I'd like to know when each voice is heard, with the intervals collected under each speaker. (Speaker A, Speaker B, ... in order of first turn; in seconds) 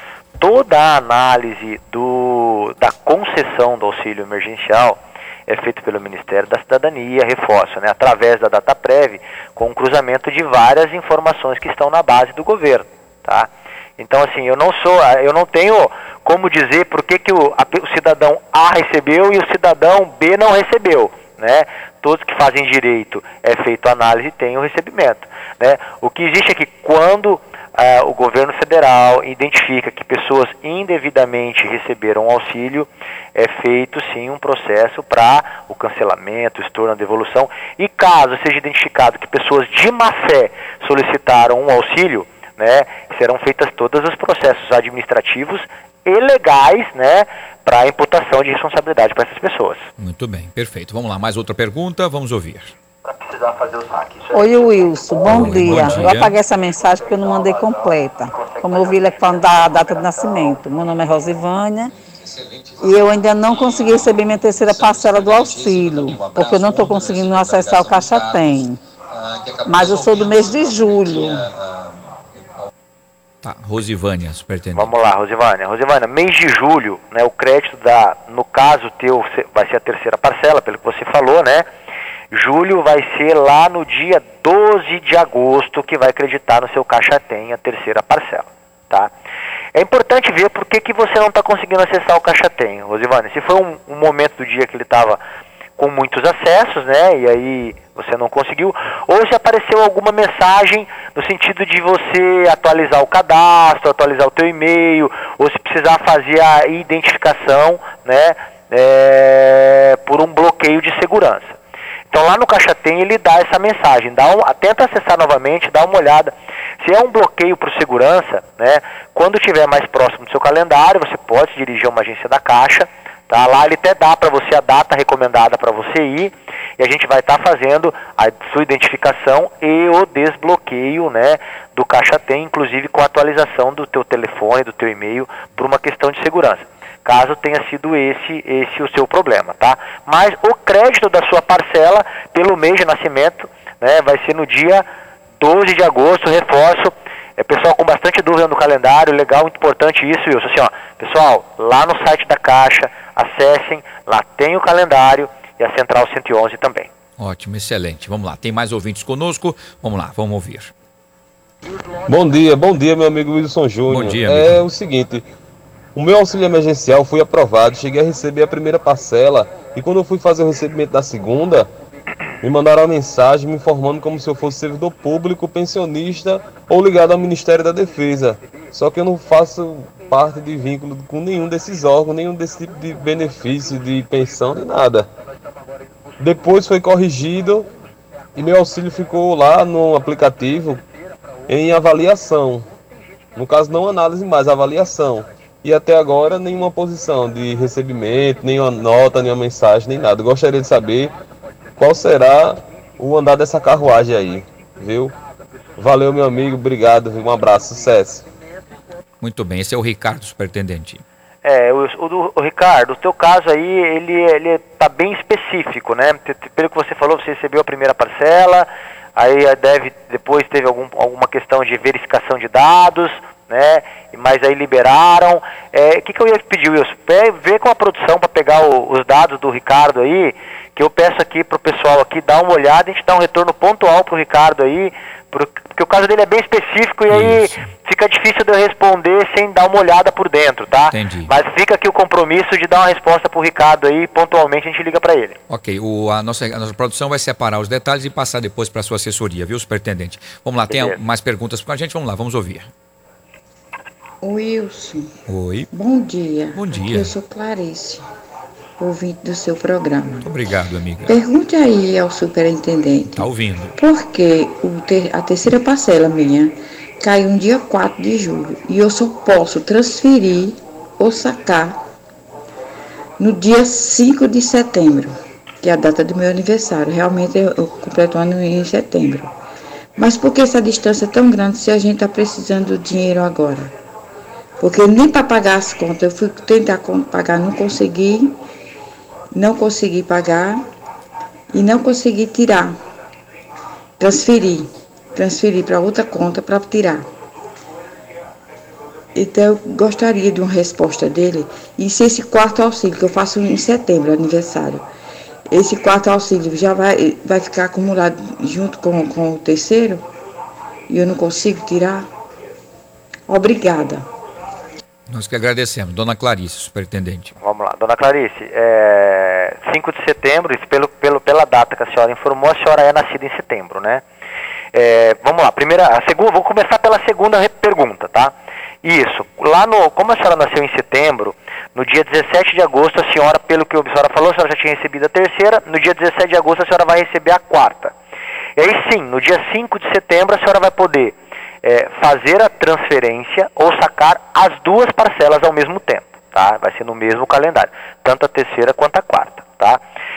Speaker A: 0.4-49.9, 53.3-54.2, 58.4-58.8, 74.7-81.7, 82.3-89.1, 89.7-95.2, 95.8-111.5, 112.1-144.8, 145.4-156.9, 211.4-245.3, 250.7-251.0, 317.4-324.0, 324.7-337.9, 338.6-349.8
Speaker B: 50.0-52.7, 55.3-56.3, 65.8-68.1, 73.4-74.9, 157.2-160.7, 163.9-164.6, 209.2-211.0, 237.1-237.6, 240.9-241.3, 245.5-252.7, 255.3-255.7, 256.5-257.1, 260.2-261.2, 263.1-263.8, 315.1-317.3
Speaker C: 54.3-61.9, 62.8-68.8, 69.6-71.5
Speaker D: 162.1-165.2, 165.9-171.7, 172.4-185.1, 186.2-187.7, 188.3-190.8, 191.5-192.7, 193.3-201.1, 201.8-205.1, 205.8-208.2
Speaker E: 254.2-255.1, 255.7-258.0, 258.8-260.3, 261.0-271.8, 273.2-279.3, 280.0-283.7, 284.6-288.4, 289.3-290.6, 291.5-292.8, 294.0-297.1, 299.1-304.8, 305.5-310.0, 310.9-312.1, 313.3-314.1